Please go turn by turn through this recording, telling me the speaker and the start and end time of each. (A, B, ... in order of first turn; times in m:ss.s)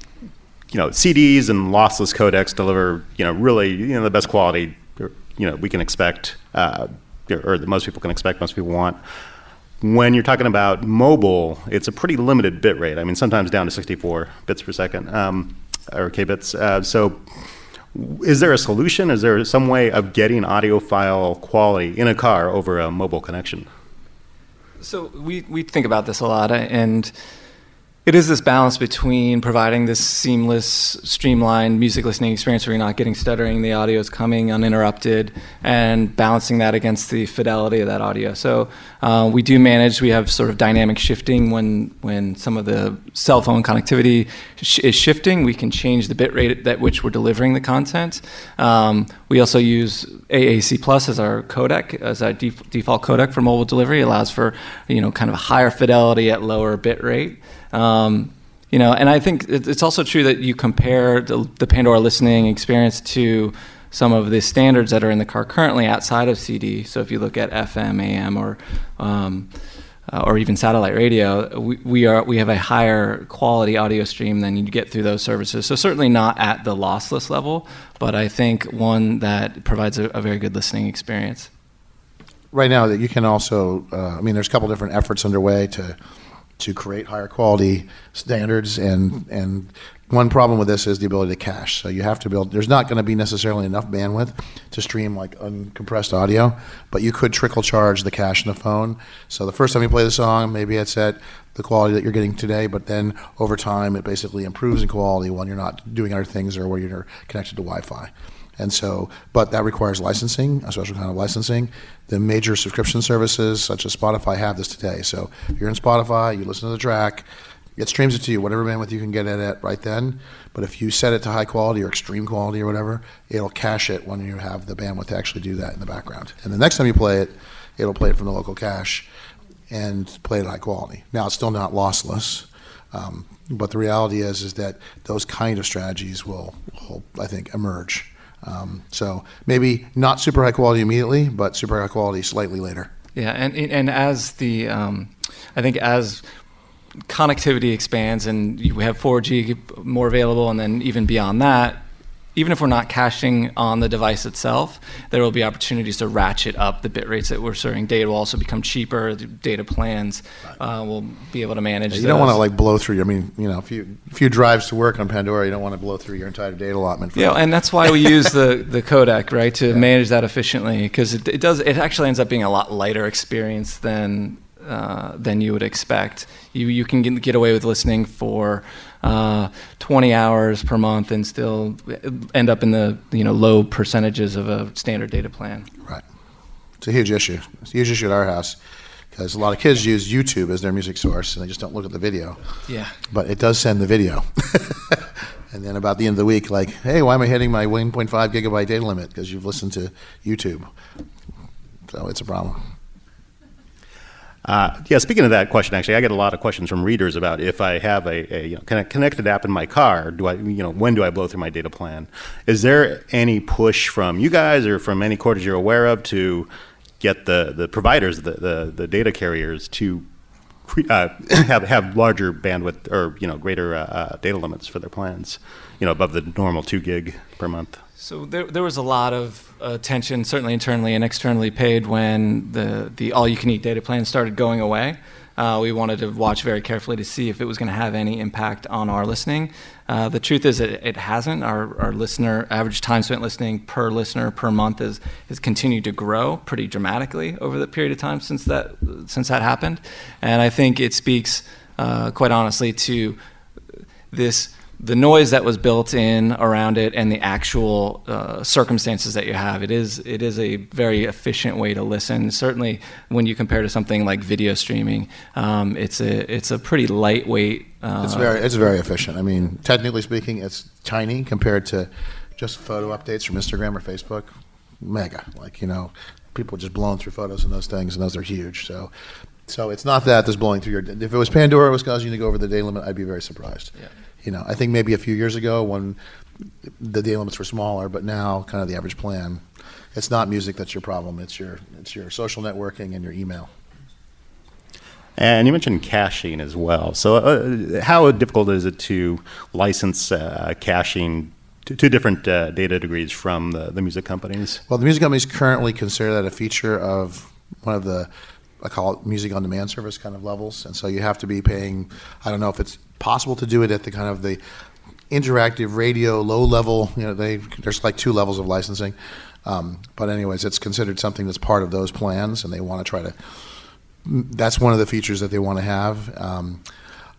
0:00.7-0:09.0 A
0:09.8-0:17.2 A
0:17.9-0:23.7 A
0:24.8-0:27.1 B
0:28.0-1:09.5 B
1:10.1-1:21.5 B
1:22.5-1:26.0 C
1:26.6-1:57.2 C
1:57.8-2:09.1 C
2:09.7-2:22.9 C
2:23.1-2:26.2 B
2:27.0-2:31.8 B
2:32.3-2:42.4 B
2:41.9-2:48.2 C
2:47.1-3:05.7 B
3:06.8-3:08.6 C
3:09.1-3:12.4 C
3:12.7-3:12.9 B
3:13.1-3:20.7 C
3:21.9-3:22.6 C
3:24.4-3:36.5 A
3:37.0-3:40.0 A
3:40.6-3:47.8 A
3:48.0-4:13.2 B
4:14.1-4:28.3 B
4:28.0-4:34.3 C
4:34.8-4:38.9 C
4:39.5-4:43.7 C
4:44.2-4:46.0 C
4:46.7-4:49.4 C
4:49.9-4:53.5 C
4:55.2-5:04.6 A
5:04.7-5:08.1 C
5:08.6-5:14.4 C
5:15.1-5:23.2 C
5:24.0-5:26.6 C